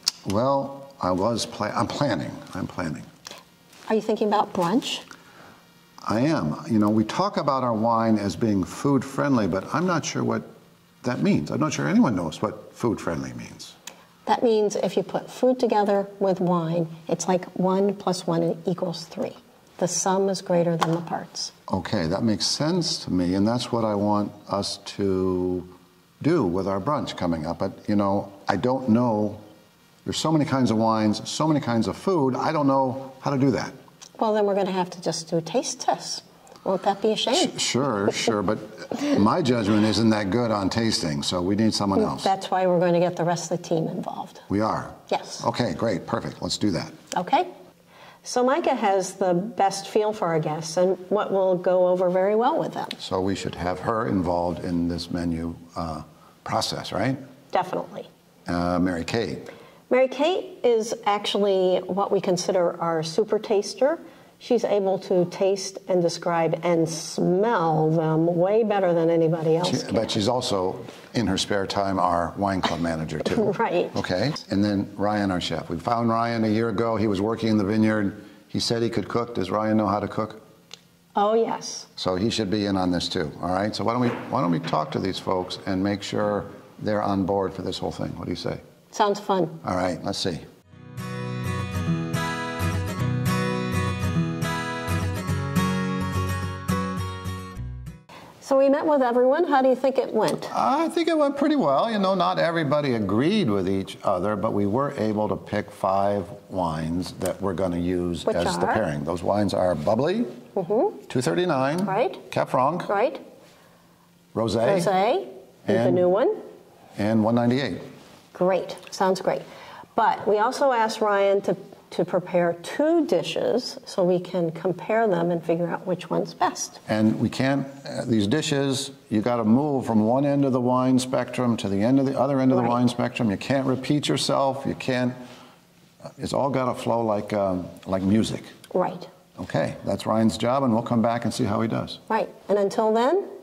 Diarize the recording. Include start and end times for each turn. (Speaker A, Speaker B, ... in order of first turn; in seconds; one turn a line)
Speaker A: 0.3-3.1
Speaker B: 3.9-5.0
Speaker A: 6.0-10.5
Speaker A: 11.0-13.8
Speaker B: 14.3-21.5
Speaker A: 21.7-29.4
Speaker A: 30.1-33.8
Speaker B: 34.2-37.6
Speaker A: 37.3-42.3
Speaker B: 42.0-44.4
Speaker A: 44.5-46.9
Speaker B: 45.1-45.4
Speaker B: 47.1-47.5
Speaker B: 48.2-53.0
Speaker A: 53.0-57.2
Speaker B: 57.5-58.1
Speaker A: 58.5-59.5
Speaker B: 59.9-70.1
Speaker A: 69.6-80.4
Speaker B: 73.3-74.0
Speaker B: 81.2-81.9
Speaker A: 82.0-88.6
Speaker B: 88.9-89.6
Speaker A: 89.6-90.4
Speaker B: 98.4-100.5
Speaker A: 100.5-110.4
Speaker B: 108.3-108.8
Speaker B: 110.6-111.0
Speaker A: 111.1-112.9
Speaker B: 111.8-112.2
Speaker B: 112.9-113.2
Speaker A: 114.3-114.9
Speaker B: 114.6-116.4
Speaker A: 115.7-116.1
Speaker A: 117.0-117.8
Speaker B: 118.3-119.4
Speaker B: 120.0-126.8
Speaker A: 126.9-135.2
Speaker B: 132.5-132.8
Speaker A: 136.2-138.5
Speaker B: 138.7-139.1
Speaker A: 139.4-142.0
Speaker B: 142.1-143.3